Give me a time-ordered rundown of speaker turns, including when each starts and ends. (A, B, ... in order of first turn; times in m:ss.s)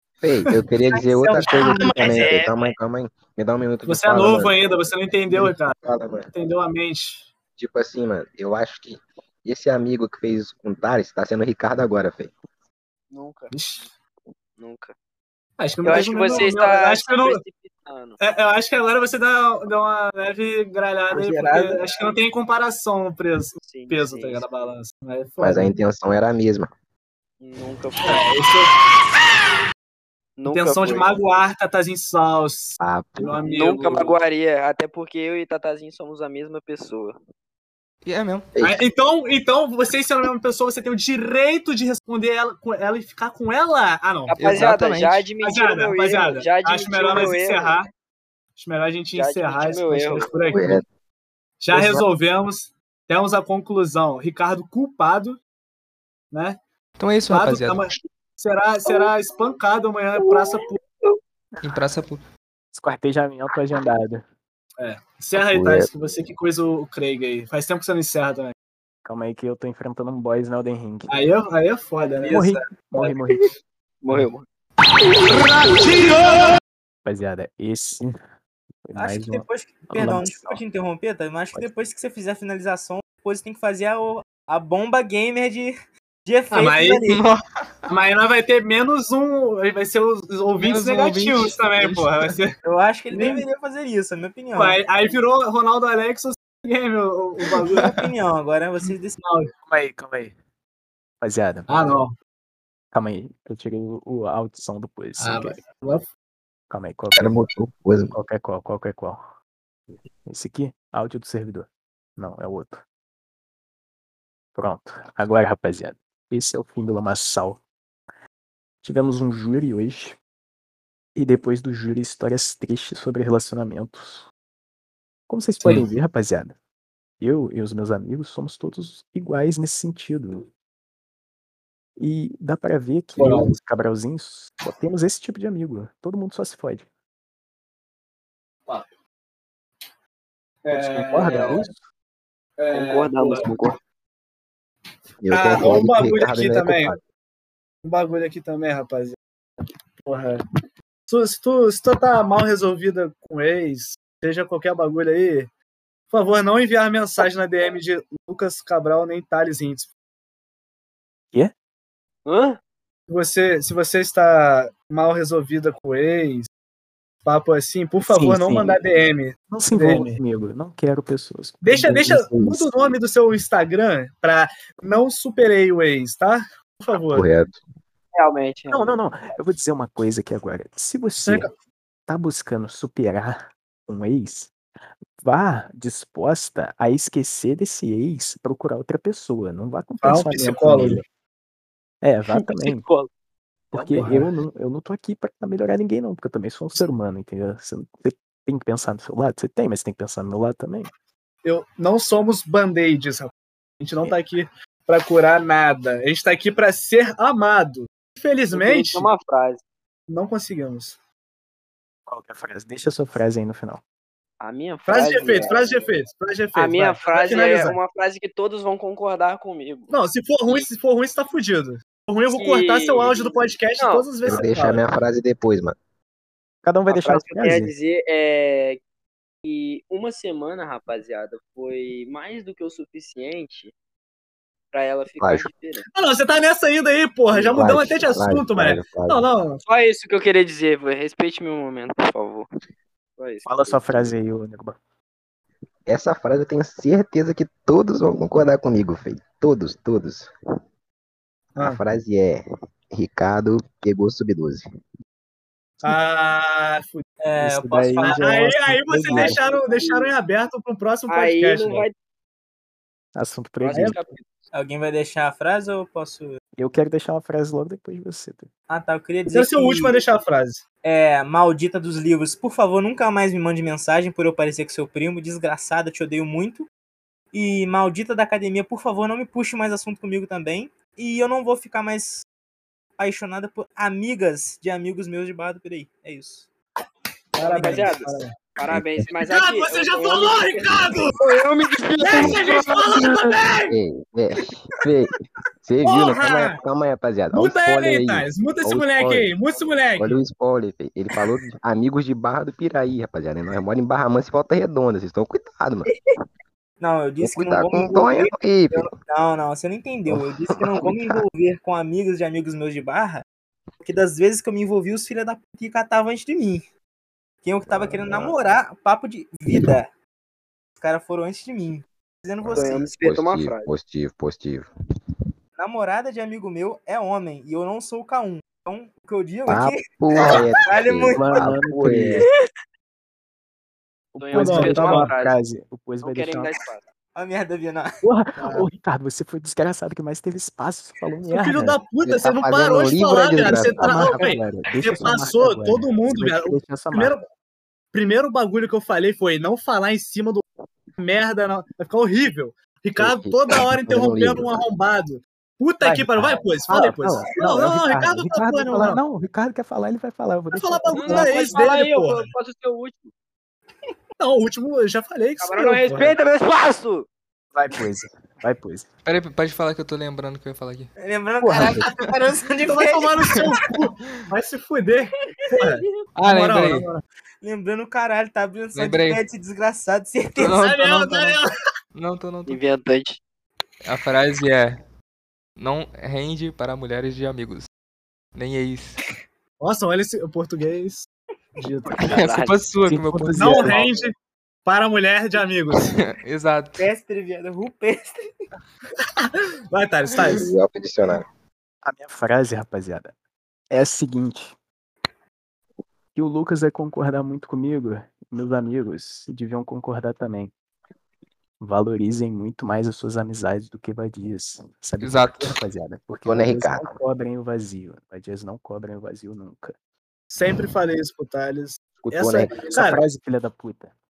0:00.2-0:04.5 A
0:01.0-0:02.5 B
0:01.5-0:02.7 C
0:03.8-0:05.8 D
0:05.3-0:06.3 A
0:06.3-0:07.3 D
0:07.6-0:12.3 A
0:13.1-0:13.5 C
0:13.5-0:13.9 D
0:14.6-0:14.9 C
0:15.6-0:17.4 D
0:15.8-0:18.2 C
0:18.2-0:25.7 D
0:21.1-0:22.1 C
0:23.6-0:24.7 C
0:25.4-0:26.7 A
0:27.4-0:28.6 C
0:28.0-0:28.7 D
0:30.4-0:31.1 C
0:30.5-0:34.1 D
0:32.8-0:33.4 A
0:33.4-0:37.2 C
0:38.0-0:38.5 E
0:38.5-0:38.9 A
0:38.6-0:44.4 D
0:44.3-0:47.8 C
0:44.4-0:45.3 E
0:45.4-0:47.9 D
0:48.6-0:50.8 D
0:49.1-0:50.6 C
0:50.5-0:50.8 A
0:51.6-0:55.4 D
0:51.7-0:52.0 A
0:56.3-0:56.6 D
0:57.0-0:57.9 E
0:57.3-1:00.8 D
0:58.8-0:59.1 C
1:00.2-1:01.2 C
1:01.6-1:02.2 E
1:02.7-1:04.2 F
1:04.8-1:08.5 D
1:05.3-1:05.9 A
1:09.0-1:11.1 F
1:11.1-1:12.6 D
1:12.3-1:13.5 F
1:14.0-1:14.4 C
1:15.3-1:16.0 D
1:17.0-1:18.1 F
1:18.8-1:20.6 F
1:19.0-1:25.7 B
1:26.2-1:27.2 B
1:26.5-1:27.0 D
1:27.1-1:27.9 E
1:27.9-1:32.6 D
1:30.6-1:32.4 E
1:32.6-1:34.8 B
1:33.1-1:33.4 D
1:34.5-1:37.9 D
1:37.8-1:39.2 B
1:39.2-1:39.5 D
1:39.7-1:40.3 F
1:41.2-1:41.9 F
1:41.7-1:42.1 D
1:42.9-1:45.6 F
1:45.2-1:46.1 D
1:46.7-1:47.4 F
1:47.1-1:48.1 A
1:48.1-1:49.2 F
1:50.2-1:52.8 F
1:54.5-1:57.6 F
1:58.8-2:00.2 F
2:01.1-2:04.3 F
2:05.3-2:06.5 F
2:07.2-2:10.5 F
2:12.0-2:16.8 F
2:13.2-2:13.5 D
2:20.6-2:21.6 D
2:20.7-2:21.7 F
2:22.6-2:23.5 D
2:22.7-2:23.8 C
2:25.2-2:27.0 A
2:25.3-2:26.9 D
2:27.8-2:29.2 D
2:30.0-2:30.4 D
2:31.1-2:35.5 D
2:36.1-2:39.9 D
2:42.2-2:42.6 C
2:43.1-2:46.5 D
2:47.2-2:50.2 D
2:48.0-2:48.8 F
2:49.5-2:52.7 F
2:51.6-2:57.3 D
2:56.9-2:57.6 A
2:58.1-2:59.3 C
2:58.7-3:01.5 F
3:01.2-3:01.5 D
3:02.1-3:04.5 F
3:05.2-3:11.0 F
3:10.0-3:11.0 D
3:12.0-3:12.8 F
3:12.3-3:13.1 C
3:13.7-3:20.9 F
3:13.9-3:14.3 D
3:21.4-3:29.1 D
3:28.5-3:29.6 C
3:30.1-3:31.0 D
3:32.1-3:33.8 F
3:34.4-3:35.9 C
3:34.8-3:37.8 D
3:36.5-3:39.9 C
3:39.9-3:44.8 D
3:42.3-3:44.5 C
3:44.2-3:45.8 A
3:46.6-3:47.7 F
3:46.9-3:48.8 C
3:49.4-3:53.7 C
3:54.7-3:55.8 C
3:55.2-3:55.5 A
3:55.9-3:59.6 D
3:57.3-3:59.2 A
3:59.6-4:02.5 C
4:03.2-4:04.2 C
4:03.4-4:04.8 F
4:05.8-4:10.3 A
4:11.6-4:14.6 A
4:15.8-4:17.0 D
4:17.2-4:18.4 B
4:17.4-4:19.4 F
4:17.9-4:21.8 D
4:19.1-4:20.1 C
4:21.1-4:21.9 C
4:23.2-4:24.0 F
4:23.6-4:24.2 C
4:24.5-4:26.4 B
4:26.6-4:28.5 F
4:28.7-4:30.0 B
4:29.3-4:30.6 D
4:30.8-4:36.7 B
4:37.3-4:42.2 B
4:43.0-4:46.5 B
4:47.3-4:48.3 D
4:47.4-4:48.1 B
4:47.5-4:53.4 C
4:48.7-4:49.1 A
4:49.1-4:51.2 D
4:52.0-4:53.7 D
4:52.2-4:52.4 A
4:53.7-4:59.3 A
4:55.8-4:56.6 D
4:57.3-5:00.2 D
4:59.9-5:05.9 A
5:06.8-5:13.2 B
5:07.2-5:08.9 A
5:10.1-5:11.2 A
5:13.8-5:16.6 B
5:17.4-5:19.9 B
5:17.7-5:18.4 A
5:19.5-5:19.7 A
5:20.8-5:22.9 B
5:22.4-5:24.7 A
5:22.5-5:23.7 C
5:25.6-5:31.2 B
5:29.5-5:32.2 A
5:31.1-5:32.3 F
5:34.1-5:36.6 F
5:34.2-5:35.4 C
5:34.3-5:35.1 D
5:36.0-5:36.8 C
5:37.1-5:38.7 B
5:38.0-5:41.8 F
5:41.2-5:47.2 D
5:42.0-5:44.3 A
5:43.6-5:47.1 F
5:47.9-5:50.4 D
5:51.0-5:59.0 D
5:53.0-5:54.6 A
5:55.8-6:01.4 F
6:00.5-6:02.3 D
6:01.0-6:03.1 C
6:04.2-6:06.1 D
6:05.4-6:07.1 C
6:07.5-6:08.9 F
6:09.0-6:10.9 E
6:11.0-6:13.6 B
6:11.4-6:11.9 F
6:12.6-6:17.0 D
6:14.0-6:14.3 E
6:16.2-6:16.9 E
6:17.4-6:21.2 B
6:18.7-6:19.2 E
6:20.4-6:21.4 E
6:20.6-6:21.4 D
6:21.9-6:22.6 E
6:22.5-6:23.2 C
6:23.8-6:24.8 E
6:25.6-6:27.7 E
6:28.3-6:29.0 E
6:29.6-6:32.2 D
6:31.9-6:32.6 C
6:32.0-6:33.8 E
6:32.8-6:33.8 F
6:33.4-6:35.9 D
6:35.7-6:36.9 E
6:36.8-6:38.3 B
6:39.2-6:40.5 D
6:40.2-6:41.2 A
6:41.8-6:43.1 F
6:43.7-6:44.5 F
6:46.1-6:50.5 F
6:51.6-6:59.7 F
6:55.0-6:55.6 E
6:56.2-6:57.0 A
7:00.3-7:03.0 D
7:02.0-7:02.7 A
7:02.7-7:03.9 F